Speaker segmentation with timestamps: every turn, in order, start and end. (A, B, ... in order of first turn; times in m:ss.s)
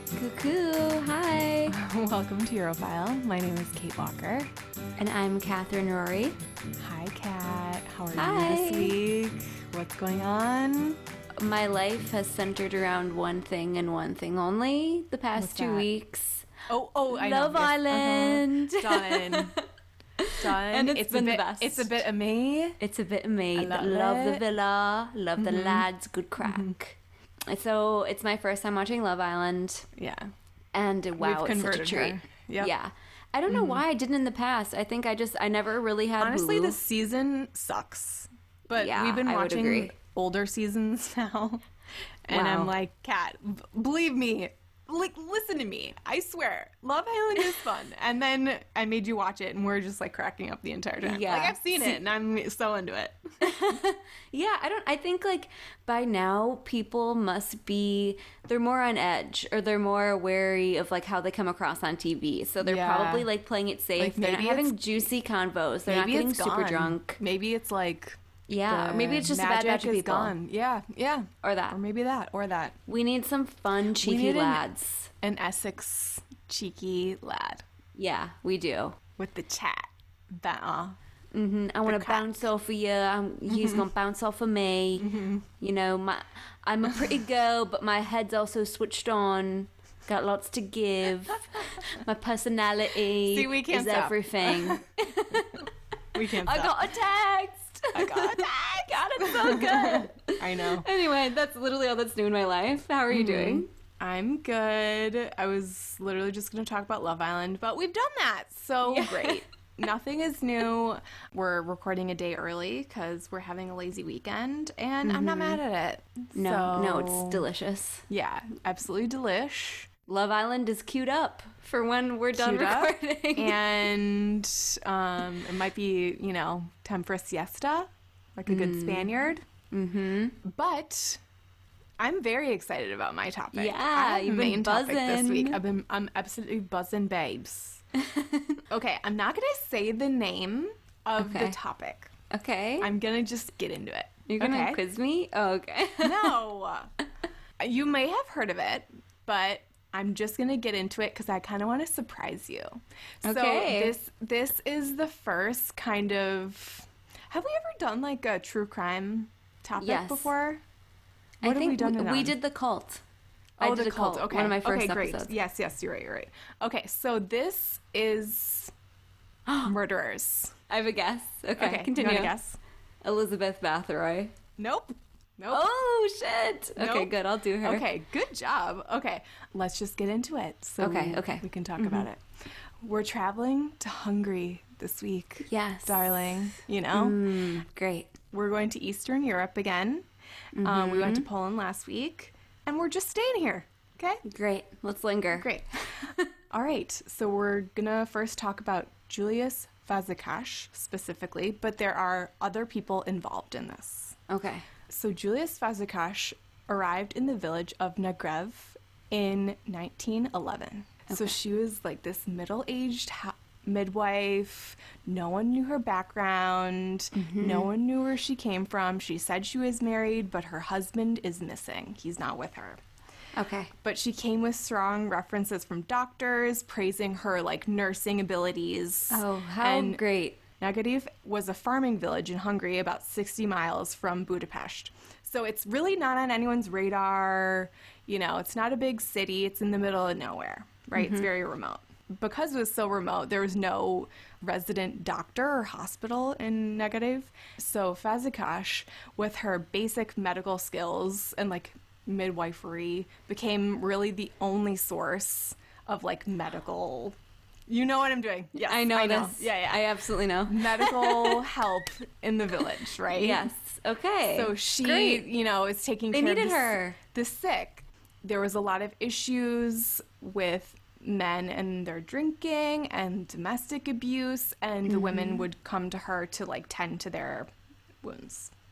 0:00.1-0:01.8 A
0:01.7-0:04.5 B
0:05.0-0:06.4 A
0:06.8-0:11.0 B
0:08.1-0:09.0 A
0:11.4-0:16.4 A
0:15.4-0:15.9 B
0:16.7-0:19.6 B
0:17.1-0:19.6 A
0:20.2-0:22.0 A
0:20.3-0:22.8 B
0:22.8-0:29.9 A
0:23.5-0:24.4 B
0:25.4-0:25.9 B
0:26.4-0:26.7 B
0:30.0-0:30.3 B
0:30.7-0:36.8 A
0:31.2-0:32.7 B
0:33.5-0:33.8 B
0:36.2-0:41.6 B
0:38.7-0:39.9 A
0:42.2-0:53.5 B
0:42.3-0:42.7 A
0:51.0-0:52.0 A
0:53.4-1:07.2 A
1:02.6-1:03.3 B
1:04.0-1:04.8 B
1:05.9-1:12.8 B
1:08.5-1:10.3 A
1:11.4-1:11.8 A
1:12.9-1:15.1 A
1:14.0-1:14.6 B
1:15.2-1:17.6 B
1:17.9-1:19.0 A
1:19.2-1:21.0 B
1:21.3-1:43.7 A
1:21.8-1:22.4 B
1:23.5-1:23.8 B
1:25.0-1:25.4 B
1:33.2-1:34.9 B
1:36.1-1:36.9 B
1:37.9-1:40.9 B
1:43.1-1:57.4 B
1:48.8-1:49.4 A
1:55.0-1:55.6 A
1:56.3-1:58.0 A
1:58.1-1:59.9 B
2:00.1-2:03.6 A
2:02.3-2:09.4 B
2:08.5-2:09.1 A
2:09.7-2:10.4 A
2:10.4-2:11.2 B
2:12.0-2:17.8 B
2:13.5-2:15.6 A
2:17.9-2:18.6 A
2:18.7-2:22.1 B
2:21.2-2:21.6 A
2:22.3-2:22.9 A
2:22.8-2:24.8 B
2:24.3-2:26.4 A
2:26.0-2:26.9 B
2:27.6-2:40.6 B
2:33.2-2:33.9 A
2:39.8-2:40.3 A
2:41.4-2:43.0 A
2:41.4-2:42.3 B
2:43.6-2:48.7 B
2:43.6-2:45.3 A
2:49.6-2:50.6 B
2:50.7-2:52.3 A
2:51.6-2:52.6 B
2:53.0-2:54.3 A
2:54.6-2:55.7 B
2:55.5-2:57.9 A
2:56.8-3:02.2 B
3:00.8-3:02.0 A
3:02.8-3:07.4 B
3:05.5-3:06.3 A
3:06.9-3:08.1 A
3:08.3-3:10.0 B
3:10.6-3:11.2 A
3:10.6-3:14.2 B
3:14.2-3:16.3 A
3:15.3-3:24.2 B
3:24.3-3:24.7 A
3:24.9-3:42.8 B
3:37.1-3:37.7 A
3:43.3-3:43.7 A
3:43.8-3:50.0 B
3:49.1-3:50.4 A
3:50.6-4:17.1 B
4:01.0-4:01.2 A
4:17.7-4:19.8 B
4:18.6-4:21.5 A
4:20.4-4:23.5 B
4:23.1-4:25.2 A
4:24.3-4:37.5 B
4:26.1-4:27.0 A
4:34.9-4:35.4 A
4:38.0-4:38.5 B